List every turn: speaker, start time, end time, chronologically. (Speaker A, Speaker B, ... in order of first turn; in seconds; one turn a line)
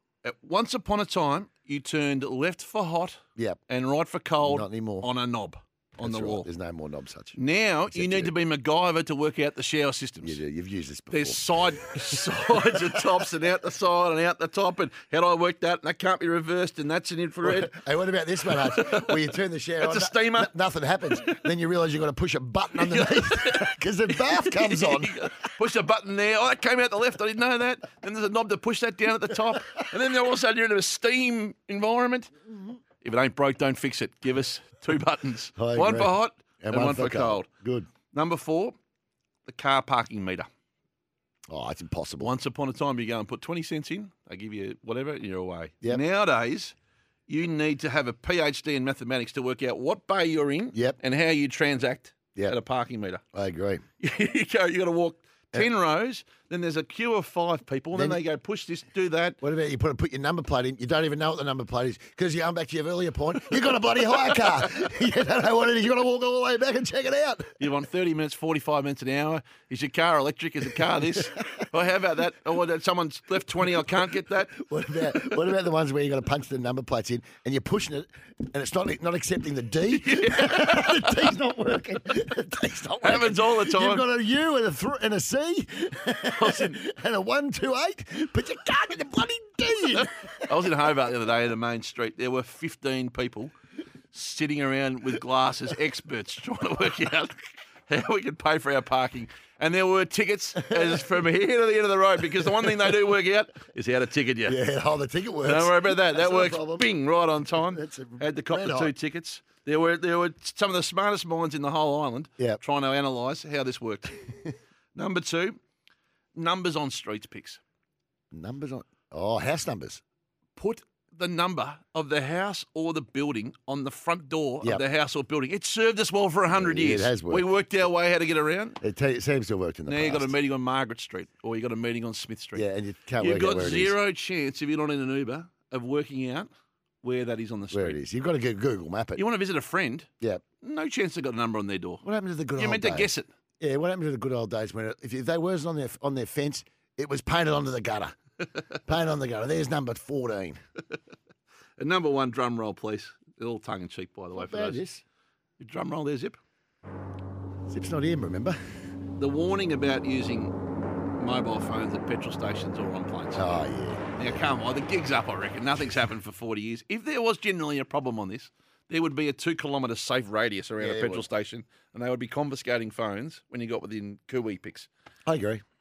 Speaker A: 0.2-6.5
Speaker B: 4.4-5.1
Speaker B: 6.0-7.4
Speaker A: 7.3-10.4
Speaker B: 7.9-8.3
Speaker B: 10.2-11.4
Speaker A: 11.1-17.8
Speaker B: 17.4-25.4
Speaker A: 18.4-19.2
Speaker A: 19.8-20.5
Speaker A: 22.8-32.3
Speaker A: 33.0-37.5
Speaker B: 35.6-37.9
Speaker A: 38.1-38.8
Speaker A: 39.5-40.5
Speaker B: 41.5-42.3
Speaker A: 42.2-46.8
Speaker A: 47.3-53.2
Speaker B: 50.7-51.0
Speaker B: 53.3-53.8
Speaker A: 54.0-59.4
Speaker B: 57.9-58.2
Speaker B: 59.4-67.5
Speaker A: 67.6-74.6
Speaker B: 74.5-90.7
Speaker A: 79.9-81.3
Speaker A: 83.0-84.0
Speaker A: 86.3-86.8
Speaker A: 90.0-93.5
Speaker A: 94.1-104.6
Speaker B: 100.6-101.1
Speaker B: 102.4-102.9
Speaker B: 104.5-108.9
Speaker A: 105.5-114.3
Speaker A: 115.0-115.6
Speaker A: 116.3-117.6
Speaker B: 118.3-120.0
Speaker A: 120.6-128.8
Speaker B: 126.5-127.5
Speaker B: 128.8-130.3
Speaker A: 129.9-132.7
Speaker B: 132.5-134.0
Speaker A: 133.2-136.5
Speaker A: 137.0-138.0
Speaker B: 137.7-139.3
Speaker A: 139.2-140.1
Speaker A: 140.6-142.0
Speaker B: 142.0-148.2
Speaker A: 142.6-143.3
Speaker B: 148.8-150.6
Speaker A: 151.8-154.8
Speaker B: 154.3-155.0
Speaker A: 155.6-156.4
Speaker B: 157.7-158.6
Speaker A: 159.2-160.6
Speaker A: 161.2-163.5
Speaker B: 163.3-164.4
Speaker A: 164.2-174.9
Speaker B: 170.8-171.3
Speaker B: 175.3-175.6